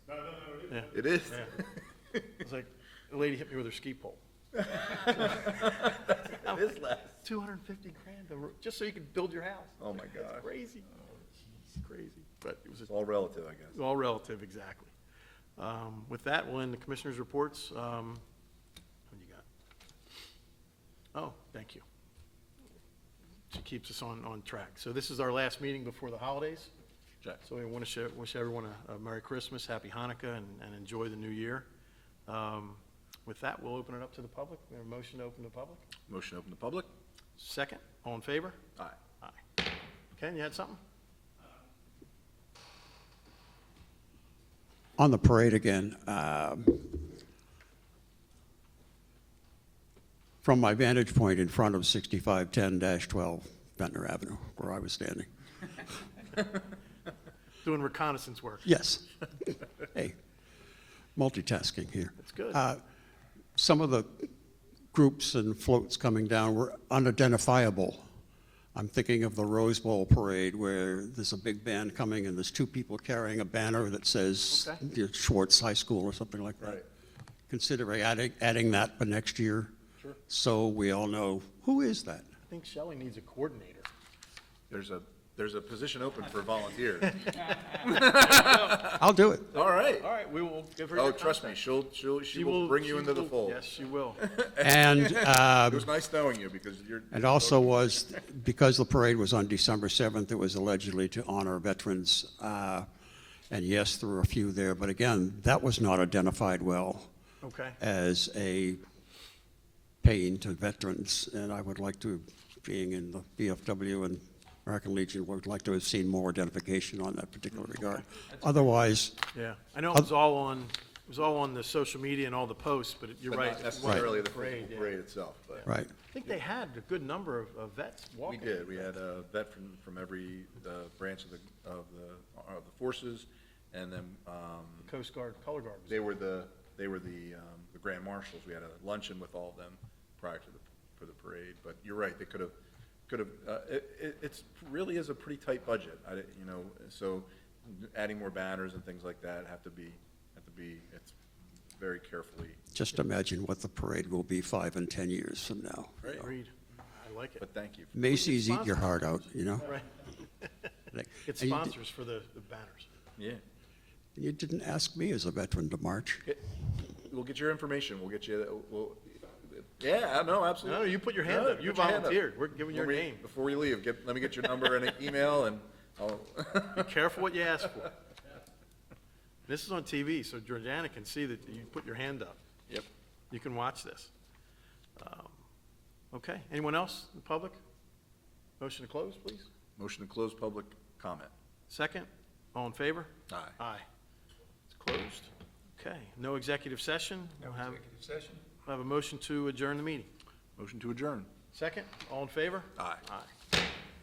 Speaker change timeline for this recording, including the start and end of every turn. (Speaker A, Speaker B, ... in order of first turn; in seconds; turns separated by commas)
Speaker A: 0.7-1.5, Speaker B: 0.9-1.8, Speaker A: 2.3-4.2, Speaker B: 4.7-7.2, Speaker A: 4.9-6.7, Speaker A: 7.2-10.9, Speaker B: 9.8-10.5, Speaker A: 11.7-12.9, Speaker B: 12.9-13.8, Speaker A: 13.7-14.9, Speaker A: 15.6-18.2, Speaker A: 19.1-19.5, Speaker A: 21.1-21.8, Speaker A: 23.5-26.7, Speaker A: 27.4-31.7, Speaker A: 32.3-35.9, Speaker B: 36.1-36.9, Speaker A: 37.4-38.6, Speaker A: 40.1-40.8, Speaker C: 45.0-47.1, Speaker C: 50.4-55.3, Speaker A: 57.6-58.7, Speaker C: 58.7-60.2, Speaker C: 61.2-62.8, Speaker A: 62.2-62.6, Speaker C: 63.6-64.3, Speaker C: 64.9-68.0, Speaker C: 68.8-76.8, Speaker B: 74.5-74.8, Speaker C: 77.5-79.7, Speaker C: 80.3-82.3, Speaker A: 82.5-83.9, Speaker B: 84.7-88.9, Speaker A: 87.4-88.9, Speaker C: 88.8-89.5, Speaker B: 89.5-90.1, Speaker A: 89.6-91.6, Speaker B: 90.9-93.6, Speaker A: 92.3-94.2, Speaker B: 94.2-97.8, Speaker C: 94.6-95.9, Speaker C: 97.1-102.9, Speaker C: 103.5-107.1, Speaker A: 107.4-107.8, Speaker C: 107.8-108.8, Speaker C: 110.0-119.2, Speaker A: 119.3-125.0, Speaker B: 123.3-125.7, Speaker A: 125.6-128.9, Speaker C: 125.7-125.9, Speaker B: 128.3-134.9, Speaker A: 134.8-136.1, Speaker B: 135.9-142.6, Speaker B: 143.1-151.2, Speaker B: 151.8-152.6, Speaker C: 152.7-156.3, Speaker A: 156.1-157.4, Speaker B: 157.4-157.9, Speaker C: 157.9-159.7, Speaker A: 158.1-159.9, Speaker C: 160.9-161.7, Speaker A: 161.3-162.9, Speaker C: 164.2-166.2, Speaker B: 166.3-177.1, Speaker A: 170.6-173.2, Speaker A: 176.7-178.0, Speaker A: 179.5-182.4, Speaker A: 183.3-184.1, Speaker A: 185.0-185.4, Speaker A: 186.1-187.6, Speaker A: 188.6-189.5, Speaker B: 189.8-191.3, Speaker A: 191.7-193.9, Speaker B: 193.3-193.6, Speaker A: 194.8-197.9, Speaker A: 198.7-200.1, Speaker B: 200.6-201.3, Speaker A: 201.5-203.3